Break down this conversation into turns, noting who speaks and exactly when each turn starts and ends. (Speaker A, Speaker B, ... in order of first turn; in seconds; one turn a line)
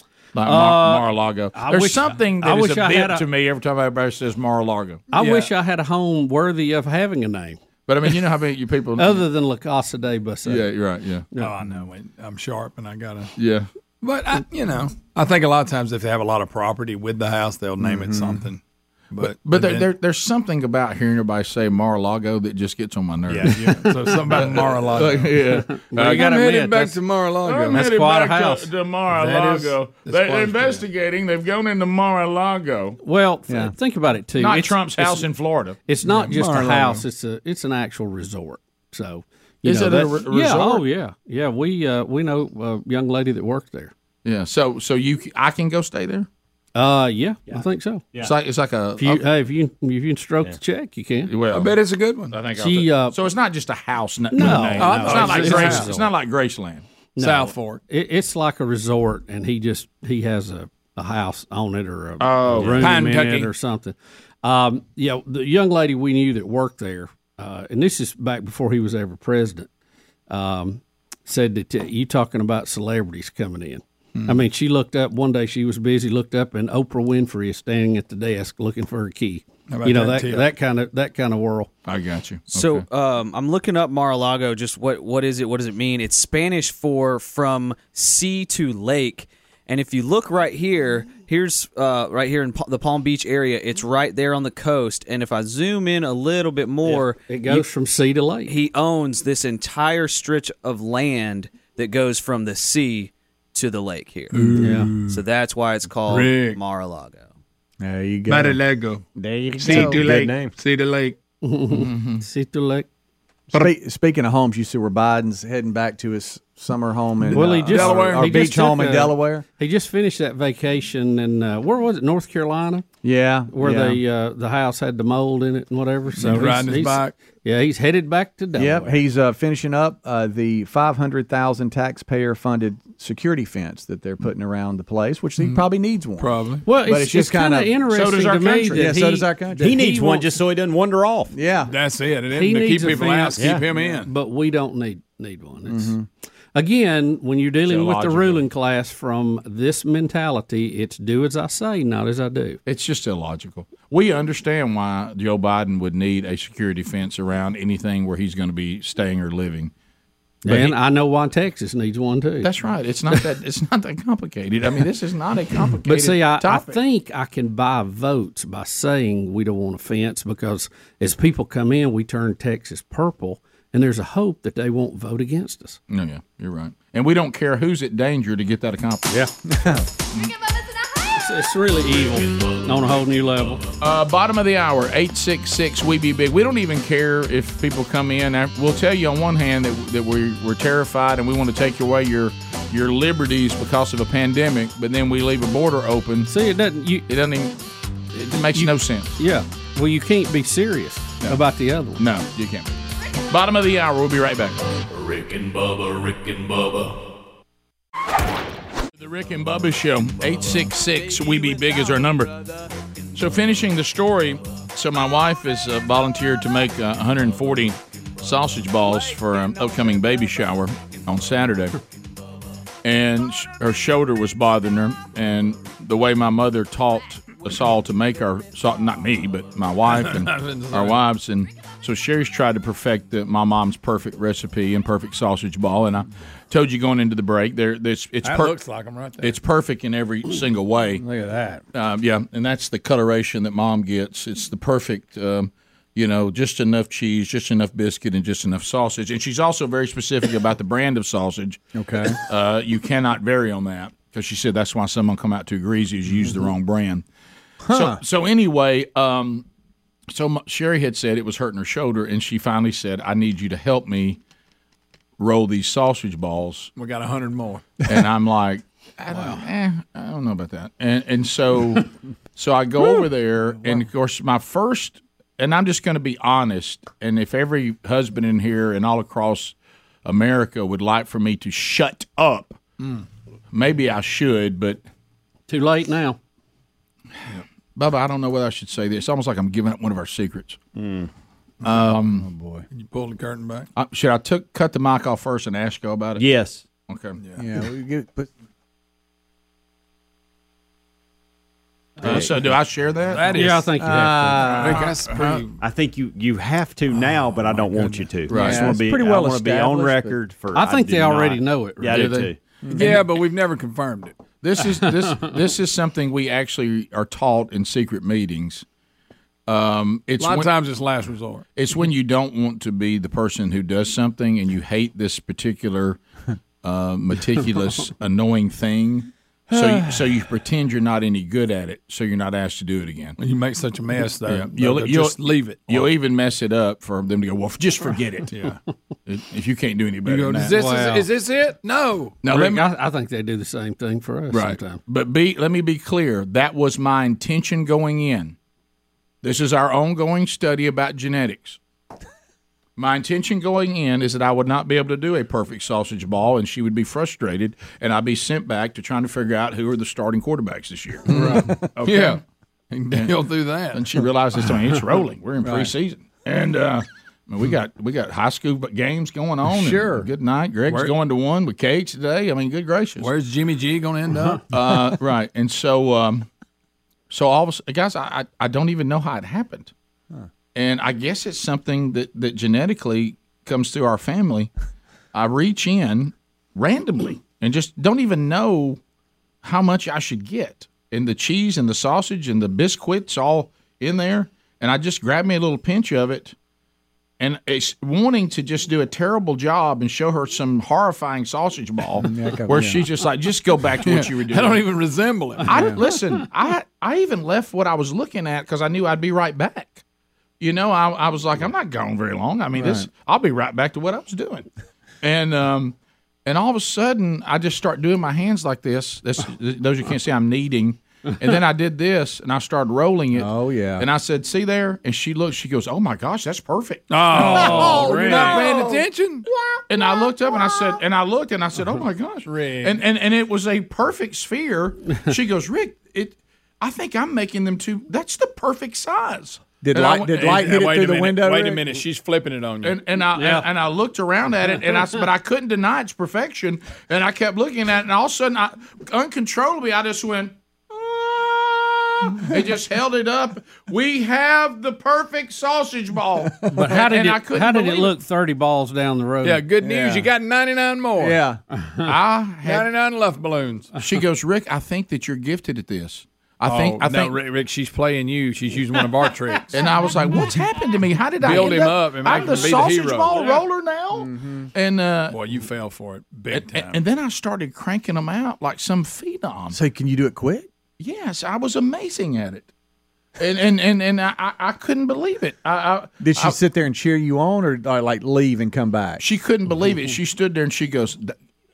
Speaker A: 0.3-5.0
Speaker B: 0.4-3.2
Speaker B: 5.1-7.6
Speaker C: 5.1-5.5
Speaker A: 7.9-9.2
Speaker B: 9.0-10.6
Speaker A: 10.4-11.3
Speaker C: 11.3-13.3
Speaker A: 13.4-13.7
Speaker C: 14.0-18.6
Speaker D: 17.8-18.4
Speaker C: 19.1-19.9
Speaker A: 19.2-26.4
Speaker C: 23.3-25.4
Speaker B: 25.7-27.0
Speaker C: 26.0-27.8
Speaker A: 27.4-33.0
Speaker B: 27.7-29.7
Speaker C: 30.0-30.8
Speaker B: 33.0-35.3
Speaker D: 33.5-33.7
Speaker A: 34.4-35.8
Speaker B: 35.9-43.9
Speaker C: 36.0-37.0
Speaker A: 39.6-40.8
Speaker A: 44.2-46.3
Speaker B: 46.7-48.0
Speaker A: 48.2-49.2
Speaker B: 49.0-51.3
Speaker A: 51.3-51.8
Speaker C: 51.5-52.4
Speaker A: 52.3-56.8
Speaker B: 52.5-53.1
Speaker B: 54.3-56.1
Speaker C: 54.4-55.9
Speaker B: 57.2-69.7
Speaker C: 57.2-57.8
Speaker A: 62.2-63.0
Speaker C: 62.6-63.5
Speaker B: 70.3-81.7
Speaker C: 74.2-74.4
Speaker C: 79.7-80.5
Speaker A: 81.8-82.8
Speaker E: 82.5-97.6
Speaker B: 96.8-98.5
Speaker E: 98.5-104.3
Speaker C: 104.3-105.2
Speaker B: 104.6-104.9
Speaker E: 105.0-107.3
Speaker C: 106.1-106.6
Speaker D: 107.8-108.6
Speaker C: 108.2-109.0
Speaker F: 109.2-110.5
Speaker D: 109.2-110.4
Speaker C: 109.6-111.2
Speaker B: 111.4-112.9
Speaker A: 111.7-112.2
Speaker D: 113.5-119.4
Speaker B: 117.3-122.8
Speaker C: 117.4-118.4
Speaker D: 123.0-124.0
Speaker B: 123.5-129.0
Speaker C: 126.2-127.1
Speaker D: 128.5-137.8
Speaker C: 135.4-136.6
Speaker B: 136.6-140.4
Speaker A: 137.9-138.9
Speaker D: 138.7-139.8
Speaker F: 139.6-141.3
Speaker D: 141.3-141.7
Speaker C: 141.7-144.1
Speaker B: 142.3-145.9
Speaker D: 145.7-146.1
Speaker B: 146.5-152.6
Speaker A: 147.7-148.4
Speaker A: 152.7-159.7
Speaker B: 160.4-162.5
Speaker A: 162.4-166.8
Speaker B: 165.8-175.8
Speaker A: 175.9-179.1
Speaker D: 179.5-179.8
Speaker B: 181.1-183.6
Speaker G: 182.0-183.6
Speaker A: 183.8-196.3
Speaker B: 196.3-197.1
Speaker A: 197.1-197.6
Speaker A: 198.1-199.1
Speaker B: 198.5-202.0
Speaker A: 202.0-204.6
Speaker G: 204.9-207.0
Speaker A: 209.0-212.5
Speaker A: 213.1-221.8
Speaker A: 222.8-238.6
Speaker C: 229.9-231.0
Speaker C: 238.2-239.4
Speaker A: 239.2-241.0
Speaker C: 241.0-241.6
Speaker A: 241.7-257.0
Speaker D: 251.7-252.2
Speaker D: 257.6-258.0
Speaker A: 257.7-259.4
Speaker A: 260.1-264.2
Speaker A: 265.2-266.7
Speaker C: 266.8-267.7
Speaker A: 267.9-282.6
Speaker C: 282.8-283.0
Speaker A: 283.5-284.8
Speaker B: 285.5-286.2
Speaker A: 287.7-290.6
Speaker F: 290.8-291.1
Speaker A: 291.6-292.3
Speaker D: 292.2-292.6
Speaker C: 292.7-293.7
Speaker A: 293.7-296.2
Speaker F: 296.2-296.6
Speaker A: 296.9-297.2
Speaker C: 297.2-297.4
Speaker D: 297.4-298.3
Speaker A: 302.0-303.4
Speaker C: 303.1-303.7
Speaker B: 303.3-304.6
Speaker D: 303.8-304.9
Speaker C: 304.4-305.6
Speaker A: 304.5-305.4
Speaker F: 305.6-312.6
Speaker D: 307.8-310.2
Speaker A: 308.3-308.7
Speaker B: 310.5-312.1
Speaker A: 311.9-313.0
Speaker D: 312.6-313.0
Speaker C: 312.7-314.2
Speaker A: 314.4-318.6
Speaker B: 314.8-315.1
Speaker A: 319.5-320.5
Speaker C: 320.2-321.4
Speaker A: 321.5-326.0
Speaker A: 326.6-333.2
Speaker C: 333.2-335.9
Speaker A: 334.2-338.3
Speaker C: 338.3-338.6
Speaker A: 339.1-340.6
Speaker C: 340.0-342.2
Speaker B: 340.5-341.1
Speaker A: 342.2-342.6
Speaker B: 342.3-344.8
Speaker A: 344.3-348.4
Speaker A: 349.2-351.6
Speaker A: 352.8-362.2
Speaker C: 361.1-362.2
Speaker C: 362.7-364.0
Speaker A: 363.7-373.1
Speaker D: 369.5-370.1
Speaker C: 370.7-370.9
Speaker C: 373.0-374.4
Speaker A: 374.5-376.3
Speaker A: 377.1-379.7
Speaker A: 380.5-384.5
Speaker A: 385.1-388.8
Speaker A: 389.4-396.3
Speaker A: 397.2-404.6
Speaker D: 402.0-402.9
Speaker C: 403.8-405.7
Speaker A: 405.4-409.8
Speaker D: 405.5-405.8
Speaker A: 410.4-414.5
Speaker D: 412.5-412.9
Speaker A: 415.0-428.7
Speaker D: 423.1-423.9
Speaker C: 426.9-429.2
Speaker B: 427.1-428.4
Speaker A: 429.7-440.1
Speaker C: 432.2-432.8
Speaker D: 439.6-441.7
Speaker C: 439.9-442.8
Speaker A: 442.6-457.9
Speaker B: 443.1-443.5
Speaker B: 456.5-459.4
Speaker C: 459.2-461.2
Speaker D: 459.6-460.1
Speaker D: 461.0-461.4
Speaker B: 461.6-461.9
Speaker A: 461.8-462.7
Speaker C: 462.4-463.8
Speaker A: 463.8-467.2
Speaker C: 466.4-469.6
Speaker A: 469.5-475.2
Speaker C: 471.2-473.4
Speaker D: 473.9-474.5
Speaker C: 475.1-476.8
Speaker A: 476.3-479.6
Speaker D: 479.5-480.5
Speaker A: 480.8-482.5
Speaker A: 483.2-486.4
Speaker D: 486.0-489.0
Speaker A: 489.0-491.1